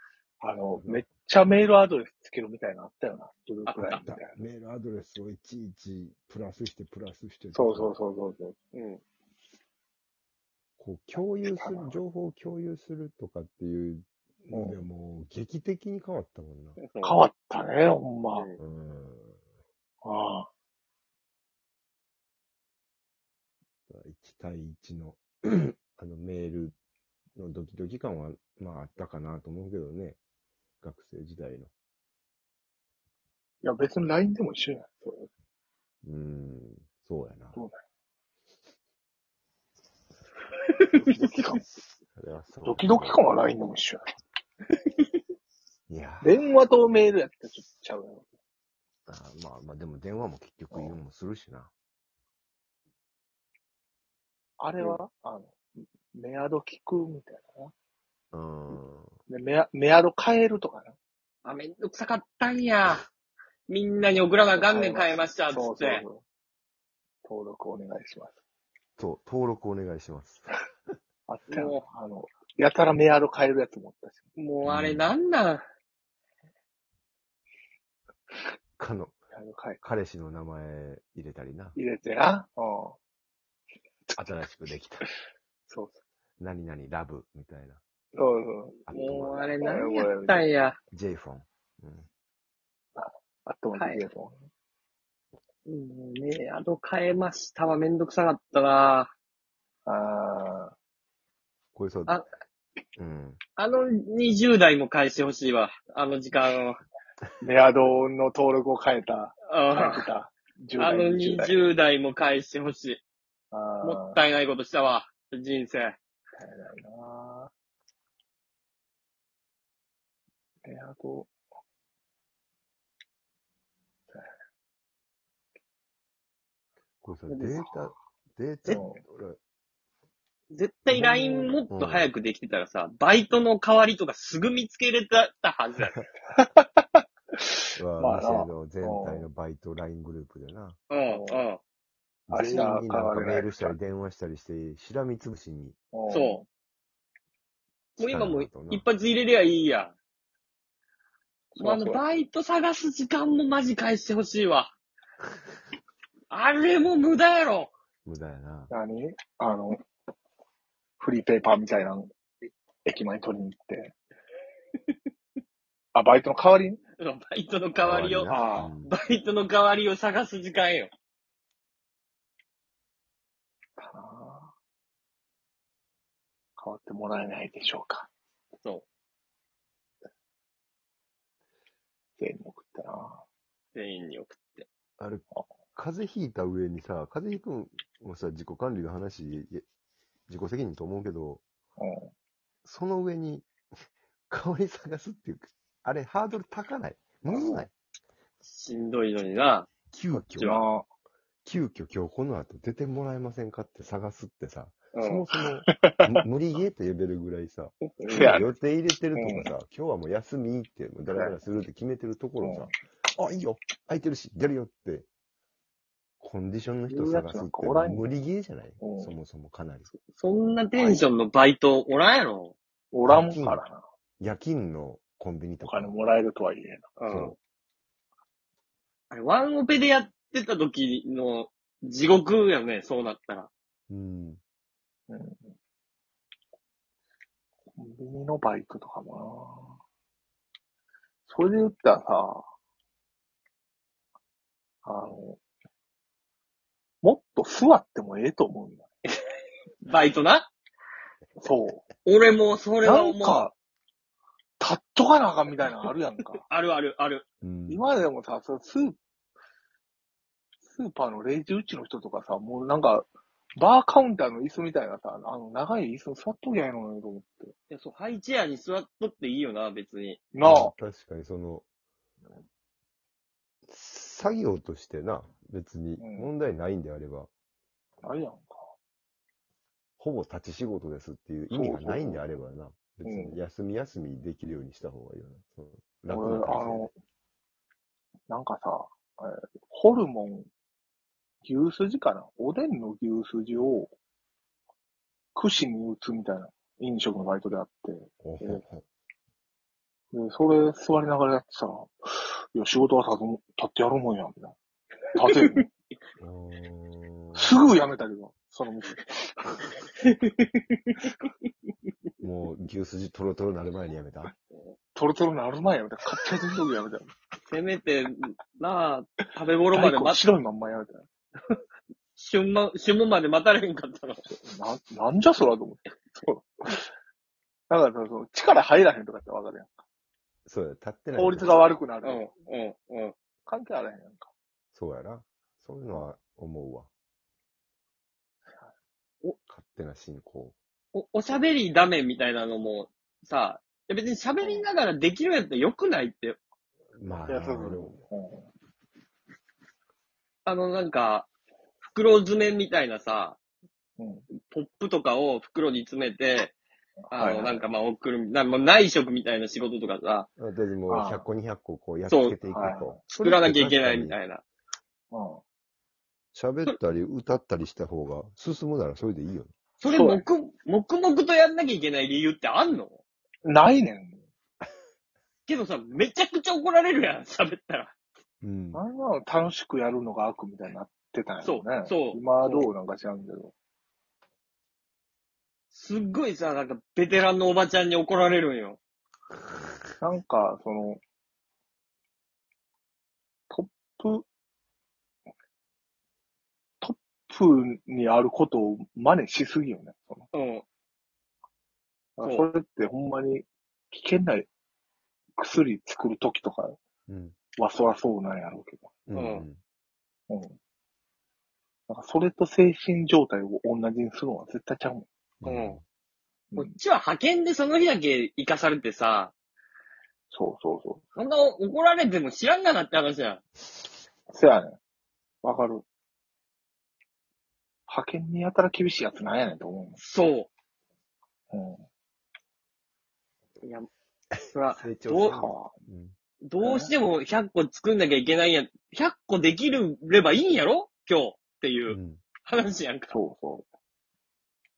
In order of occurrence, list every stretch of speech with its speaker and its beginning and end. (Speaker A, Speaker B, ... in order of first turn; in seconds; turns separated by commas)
Speaker A: 0.4-4.4, Speaker B: 0.7-1.0, Speaker C: 3.7-4.0, Speaker B: 4.0-8.0, Speaker A: 7.5-8.6, Speaker C: 8.7-9.0, Speaker B: 10.8-16.8, Speaker A: 11.4-12.0, Speaker A: 14.5-14.8, Speaker C: 16.8-17.2, Speaker A: 17.0-18.5, Speaker B: 18.6-19.4, Speaker A: 20.0-20.5, Speaker B: 23.9-26.8, Speaker B: 27.4-30.2, Speaker B: 30.8-31.7, Speaker A: 33.6-35.3, Speaker B: 36.0-37.6, Speaker C: 40.8-41.0, Speaker A: 40.9-41.6, Speaker B: 42.1-43.2, Speaker A: 42.6-44.0, Speaker B: 45.9-46.4, Speaker A: 46.2-48.3, Speaker B: 49.1-51.7, Speaker A: 50.7-51.0, Speaker A: 54.6-55.6, Speaker A: 56.1-57.7, Speaker B: 58.3-59.1, Speaker A: 59.3-61.0, Speaker C: 61.5-63.0, Speaker C: 63.7-66.0, Speaker A: 64.6-66.2, Speaker A: 67.2-68.4, Speaker B: 69.0-70.5, Speaker A: 71.3-74.2, Speaker C: 71.5-71.8, Speaker C: 74.4-75.7, Speaker B: 74.6-75.1, Speaker B: 78.8-79.1, Speaker A: 79.3-79.8, Speaker B: 79.8-81.8, Speaker A: 81.8-83.0, Speaker B: 84.2-85.1, Speaker A: 85.7-86.0, Speaker B: 86.4-87.8, Speaker A: 88.1-88.9, Speaker B: 88.9-89.6, Speaker C: 88.9-90.8, Speaker A: 89.6-90.5, Speaker B: 90.9-92.1, Speaker A: 93.0-94.4, Speaker C: 93.8-94.0, Speaker C: 95.7-99.1, Speaker A: 99.9-100.7, Speaker B: 101.8-102.2, Speaker B: 103.0-103.4, Speaker C: 103.6-106.8, Speaker A: 107.4-111.5, Speaker C: 109.5-110.0, Speaker C: 110.8-113.0, Speaker A: 113.5-114.2, Speaker C: 113.8-116.0, Speaker A: 116.4-117.5, Speaker A: 120.7-121.3, Speaker B: 127.0-129.4, Speaker C: 127.3-127.9, Speaker A: 128.7-129.0, Speaker C: 130.5-136.1, Speaker A: 131.1-131.6, Speaker B: 131.7-132.1, Speaker A: 136.3-139.3, Speaker B: 137.8-140.8, Speaker C: 140.9-141.6, Speaker A: 141.1-141.4, Speaker B: 142.3-145.8, Speaker A: 142.3-143.8, Speaker A: 145.9-146.5, Speaker C: 146.1-146.4, Speaker C: 148.0-149.9, Speaker B: 148.0-148.9, Speaker A: 151.6-152.1, Speaker C: 151.6-154.7, Speaker C: 156.3-157.7, Speaker B: 158.1-158.7, Speaker A: 158.7-159.8, Speaker A: 161.0-162.1, Speaker A: 162.8-163.9, Speaker A: 165.9-166.8, Speaker C: 167.0-170.9, Speaker B: 167.8-168.9, Speaker A: 168.3-168.7, Speaker A: 173.8-174.5, Speaker A: 176.6-178.1, Speaker A: 182.2-183.2, Speaker C: 183.8-184.7, Speaker B: 185.0-189.6, Speaker B: 190.3-191.4, Speaker A: 191.8-192.1, Speaker B: 192.6-193.5, Speaker B: 194.3-197.7, Speaker C: 197.3-197.7, Speaker C: 198.4-200.6, Speaker B: 199.9-200.6, Speaker A: 200.4-200.9, Speaker B: 201.4-215.1, Speaker C: 204.9-205.3, Speaker A: 205.7-206.1, Speaker C: 207.8-208.3, Speaker A: 208.1-208.5, Speaker A: 209.2-209.5, Speaker A: 211.1-211.4, Speaker A: 212.4-212.7, Speaker B: 216.2-219.9, Speaker A: 217.0-218.2, Speaker A: 218.8-219.1, Speaker C: 220.1-222.6, Speaker A: 220.8-221.1, Speaker A: 222.9-223.8, Speaker B: 223.1-223.6, Speaker B: 224.2-225.9, Speaker A: 225.7-227.0, Speaker C: 227.0-227.4, Speaker B: 227.1-227.3, Speaker C: 229.1-233.5, Speaker B: 233.9-234.4, Speaker A: 235.1-235.5, Speaker A: 237.8-239.8, Speaker A: 241.3-242.4, Speaker A: 244.8-245.4, Speaker A: 247.0-248.9, Speaker C: 249.8-250.5, Speaker A: 251.4-251.8, Speaker C: 252.1-253.5, Speaker A: 252.8-253.5, Speaker A: 254.6-256.4, Speaker C: 256.4-257.2, Speaker B: 257.4-257.9, Speaker A: 257.7-259.0, Speaker A: 260.7-267.5, Speaker C: 267.7-270.2, Speaker A: 270.3-270.7, Speaker B: 270.4-271.6, Speaker B: 273.7-277.3, Speaker A: 276.0-276.3, Speaker A: 278.0-278.7, Speaker B: 280.0-286.9, Speaker A: 281.5-282.2, Speaker A: 283.1-283.4, Speaker A: 286.1-286.9, Speaker A: 288.3-290.5, Speaker A: 291.4-293.9, Speaker A: 295.4-298.6, Speaker B: 298.2-298.9, Speaker A: 300.1-304.6, Speaker A: 305.1-305.7, Speaker C: 305.4-305.6, Speaker B: 306.2-307.6, Speaker A: 307.4-309.7, Speaker C: 309.9-310.6, Speaker B: 312.2-314.3, Speaker A: 314.9-317.1, Speaker C: 317.5-320.2, Speaker A: 319.7-321.1, Speaker C: 322.2-324.3, Speaker A: 324.2-326.9, Speaker A: 327.7-329.7, Speaker B: 330.5-331.6, Speaker A: 331.1-332.3, Speaker C: 332.0-333.1, Speaker A: 333.5-334.3, Speaker B: 334.7-336.9, Speaker B: 339.5-340.6, Speaker C: 340.9-346.4, Speaker A: 344.4-344.7, Speaker B: 347.0-348.0, Speaker A: 347.3-348.5, Speaker C: 350.4-351.3, Speaker C: 351.9-353.4, Speaker A: 354.0-354.3, Speaker C: 354.4-356.6, Speaker A: 357.1-357.7, Speaker C: 357.1-360.3, Speaker B: 360.4-364.2, Speaker A: 360.9-361.3, Speaker C: 362.1-362.4, Speaker A: 362.5-363.0, Speaker C: 363.1-364.4, Speaker A: 365.1-365.4, Speaker B: 366.3-369.5, Speaker C: 369.8-373.0, Speaker A: 369.9-370.2, Speaker A: 373.4-374.2, Speaker C: 375.5-377.9, Speaker B: 378.4-378.8, Speaker A: 378.7-383.5, Speaker C: 381.4-382.7, Speaker C: 385.7-388.8, Speaker A: 390.0-391.0, Speaker A: 393.5-394.2, Speaker A: 396.8-400.3, Speaker C: 400.3-400.6, Speaker A: 402.2-404.5, Speaker C: 402.2-402.5, Speaker A: 405.4-406.8, Speaker B: 407.1-407.4, Speaker A: 407.6-409.0, Speaker B: 409.1-409.6, Speaker C: 409.1-409.5, Speaker A: 410.3-410.6, Speaker A: 411.9-415.1, Speaker B: 415.4-415.8, Speaker C: 415.4-415.8, Speaker C: 416.6-419.3, Speaker A: 420.3-421.0, Speaker C: 421.2-423.4, Speaker A: 424.3-424.8, Speaker A: 425.4-425.9, Speaker A: 427.9-430.0, Speaker C: 430.0-430.5, Speaker A: 431.5-431.8, Speaker C: 433.6-433.9, Speaker C: 434.5-435.4, Speaker B: 434.7-436.1, Speaker A: 435.4-435.7, Speaker C: 436.4-443.1, Speaker A: 436.6-436.9, Speaker B: 441.9-442.2, Speaker A: 443.1-443.7